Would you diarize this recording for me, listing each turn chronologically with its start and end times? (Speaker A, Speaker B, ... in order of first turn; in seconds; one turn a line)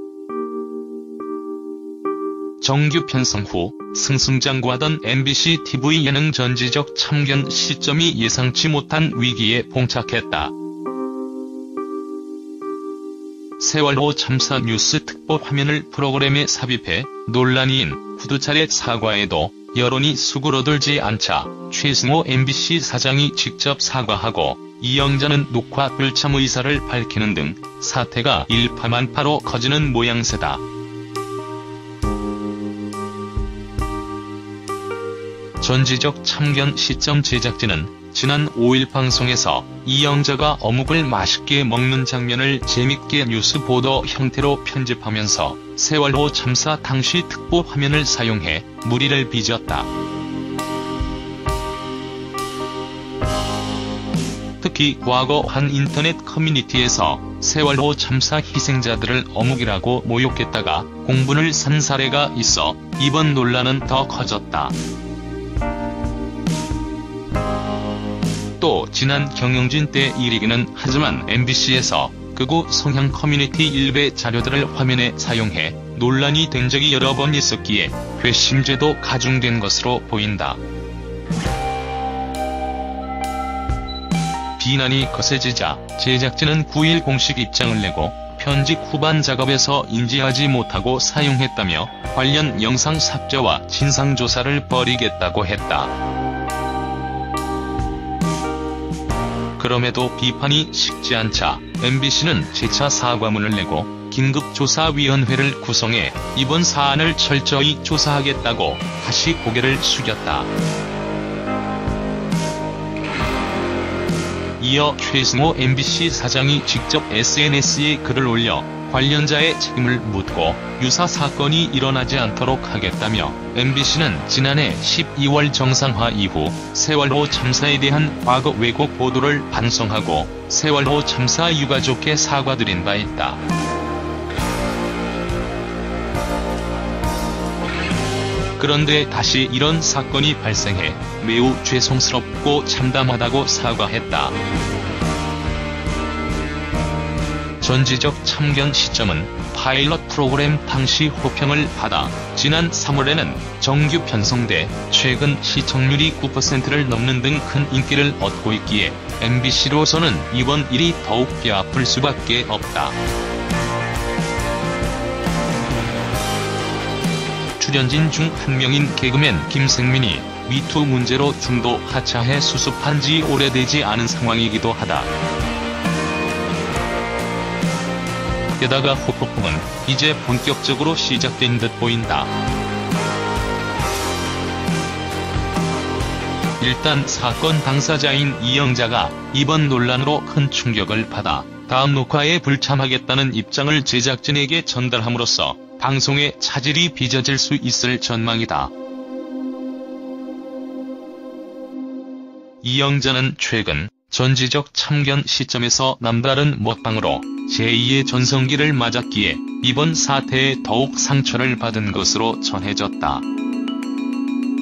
Speaker A: 2.6-10.5
Speaker A: 13.6-30.6
Speaker A: 35.6-49.9
Speaker A: 54.6-64.8
Speaker A: 68.6-80.6
Speaker A: 84.6-95.9
Speaker A: 99.6-110.5
Speaker A: 114.6-133.4
Speaker A: 138.6-144.4
Speaker A: 147.6-163.0
Speaker A: 167.6-175.1
Speaker A: 178.6-182.3
Speaker A: 186.6-198.7
Speaker A: 202.6-213.2